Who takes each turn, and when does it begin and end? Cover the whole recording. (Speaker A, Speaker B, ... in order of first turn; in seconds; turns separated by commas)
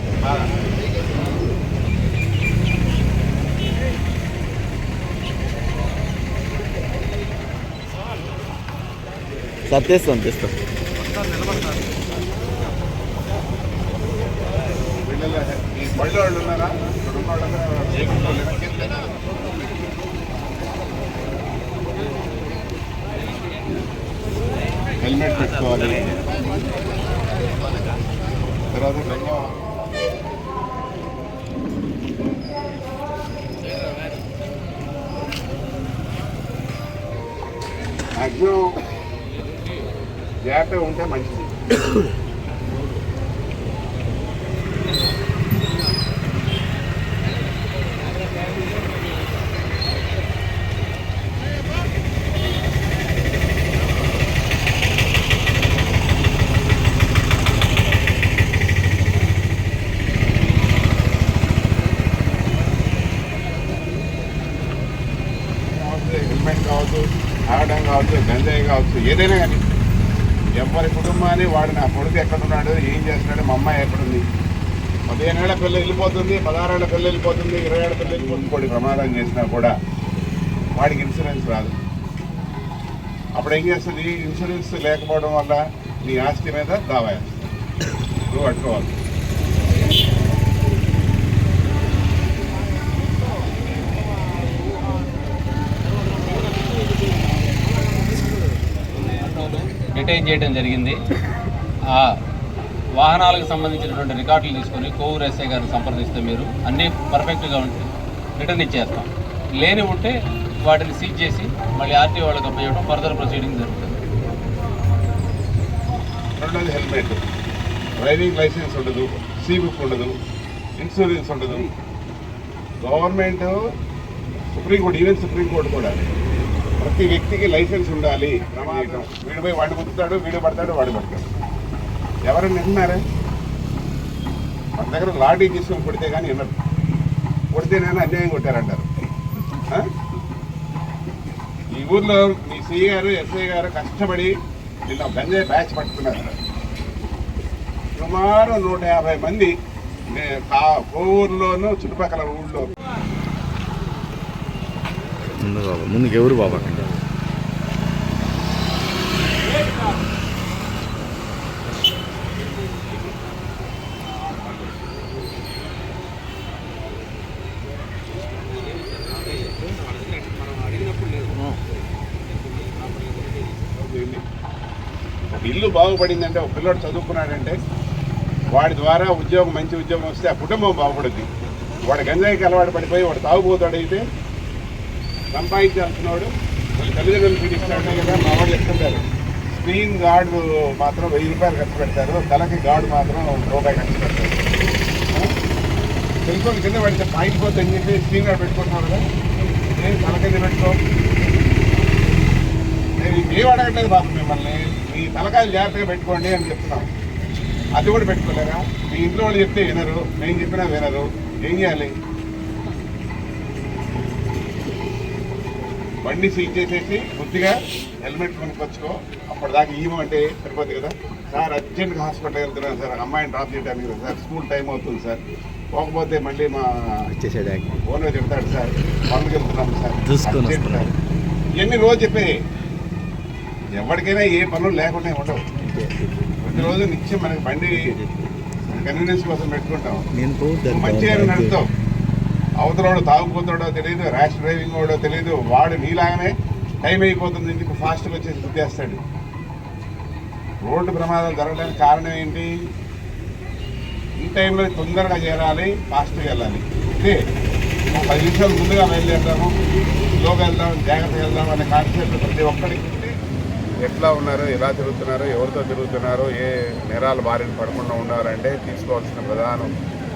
Speaker A: 0.2-0.5, Speaker B: 9.7-10.5, Speaker A: 15.1-19.1, Speaker A: 25.0-26.2, Speaker A: 28.7-29.6, Speaker A: 38.2-38.7, Speaker A: 40.5-41.5, Speaker A: 65.7-69.6, Speaker A: 70.6-74.2, Speaker A: 75.1-79.7, Speaker A: 80.8-81.7, Speaker A: 83.4-87.4, Speaker A: 88.3-89.0, Speaker C: 99.2-101.0, Speaker C: 101.9-102.2, Speaker C: 103.0-114.0, Speaker A: 116.4-117.2, Speaker A: 118.0-120.1, Speaker A: 120.8-121.7, Speaker A: 122.8-123.6, Speaker A: 124.5-126.2, Speaker A: 126.8-131.3, Speaker A: 132.3-133.0, Speaker A: 134.8-136.6, Speaker A: 137.5-138.9, Speaker A: 139.6-139.9, Speaker A: 141.8-144.3, Speaker A: 144.9-146.4, Speaker A: 148.0-149.5, Speaker A: 150.1-152.7, Speaker B: 155.4-156.9, Speaker C: 168.9-171.6, Speaker A: 173.8-174.2, Speaker A: 175.3-177.6, Speaker A: 178.5-181.3, Speaker A: 181.9-184.0, Speaker A: 185.3-194.6, Speaker A: 196.3-199.0, Speaker A: 199.7-200.8, Speaker A: 203.0-206.9, Speaker A: 207.8-211.9, Speaker A: 216.1-225.2, Speaker A: 225.8-227.1, Speaker B: 227.1-227.8, Speaker A: 227.7-230.9, Speaker B: 230.0-230.9, Speaker A: 231.6-232.3, Speaker A: 233.8-235.4, Speaker B: 235.6-236.8, Speaker A: 236.4-237.8, Speaker B: 237.7-238.4, Speaker A: 238.7-240.1, Speaker B: 240.1-241.6, Speaker A: 240.7-241.7, Speaker A: 242.6-246.3, Speaker A: 246.8-249.0, Speaker A: 250.6-252.5, Speaker A: 254.2-257.2, Speaker A: 257.9-259.6, Speaker A: 260.2-263.1, Speaker A: 263.8-269.7